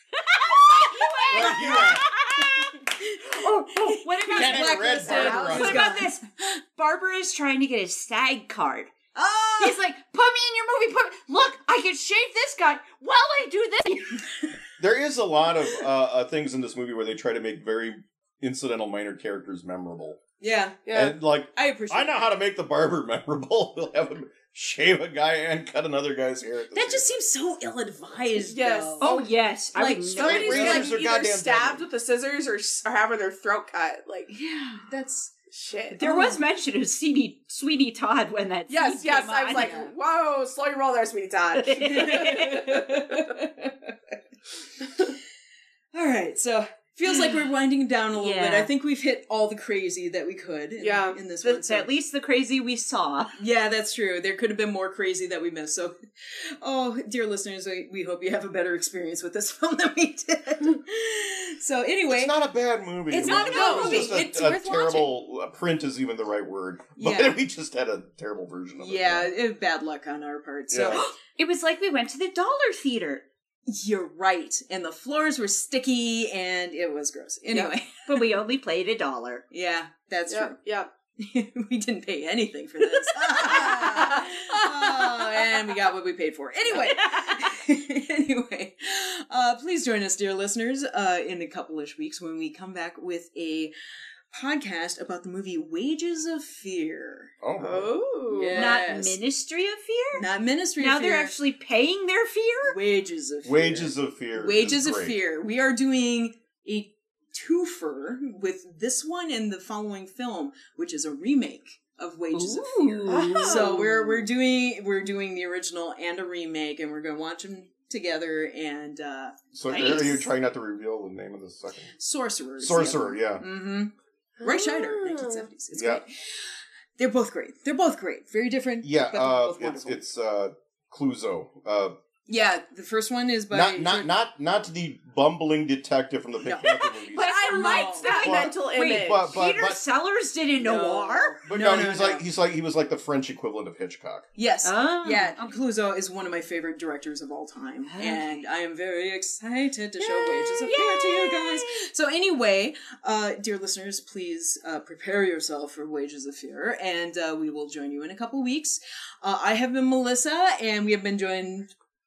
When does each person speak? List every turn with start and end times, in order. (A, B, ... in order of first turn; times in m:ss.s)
0:00.2-0:02.8 A
0:00.5-0:06.1 B
0:01.3-0:02.0 C
0:03.4-0:08.9 A
0:04.4-0:05.8 C
0:05.1-0:05.8 D
0:09.2-0:09.8 B
0:09.6-0:14.2 A
0:14.8-0:20.2 C
0:20.4-0:20.8 B
0:20.8-0:21.2 D
0:20.9-0:27.1 C
0:21.5-0:22.3 B
0:26.7-0:30.7 B
0:28.4-0:29.0 D
0:29.0-0:30.9 A
0:30.2-0:31.9 C
0:30.2-0:34.3 D
0:34.3-0:35.3 B
0:35.5-0:36.0 D
0:35.9-0:39.8 A
0:36.0-0:36.4 B
0:38.7-0:43.4 D
0:39.5-0:39.9 B
0:41.5-0:42.6 A
0:41.8-0:44.1 B
0:45.9-0:51.9 B
0:48.2-0:48.7 A
0:50.8-0:51.2 D
0:51.4-0:53.4 A
0:53.4-1:02.4 B
1:02.1-1:09.3 C
1:03.1-1:04.8 B
1:03.2-1:05.1 A
1:03.5-1:04.0 D
1:07.0-1:07.4 B
1:08.8-1:11.1 B
1:10.7-1:11.0 C
1:11.0-1:13.2 A
1:13.7-1:18.2 B
1:18.0-1:19.4 A
1:19.5-1:20.6 B
1:20.3-1:20.9 D
1:21.2-1:33.7 B
1:23.4-1:25.4 D
1:34.3-1:37.3 B
1:37.4-1:37.9 C
1:37.6-1:38.8 D
1:38.3-1:39.2 B
1:38.5-1:40.3 A
1:40.1-1:41.3 B
1:40.8-1:42.8 A
1:42.7-1:59.5 B
1:43.4-1:45.2 C
1:52.3-1:53.8 A
1:53.1-1:54.3 D
1:59.5-2:02.0 C
1:59.7-2:00.3 A
2:02.0-2:10.0 B
2:02.6-2:03.4 C
2:04.4-2:05.5 D
2:05.7-2:06.0 C
2:08.8-2:12.0 C
2:12.3-2:14.1 B
2:13.5-2:17.5 C
2:16.4-2:16.7 B
2:16.6-2:21.4 A
2:17.2-2:19.3 D
2:17.5-2:18.1 B
2:18.2-2:19.8 C
2:20.6-2:22.2 B
2:21.5-2:24.3 C
2:24.4-2:41.7 B
2:24.6-2:25.6 A
2:27.9-2:28.4 A
2:30.6-2:31.9 A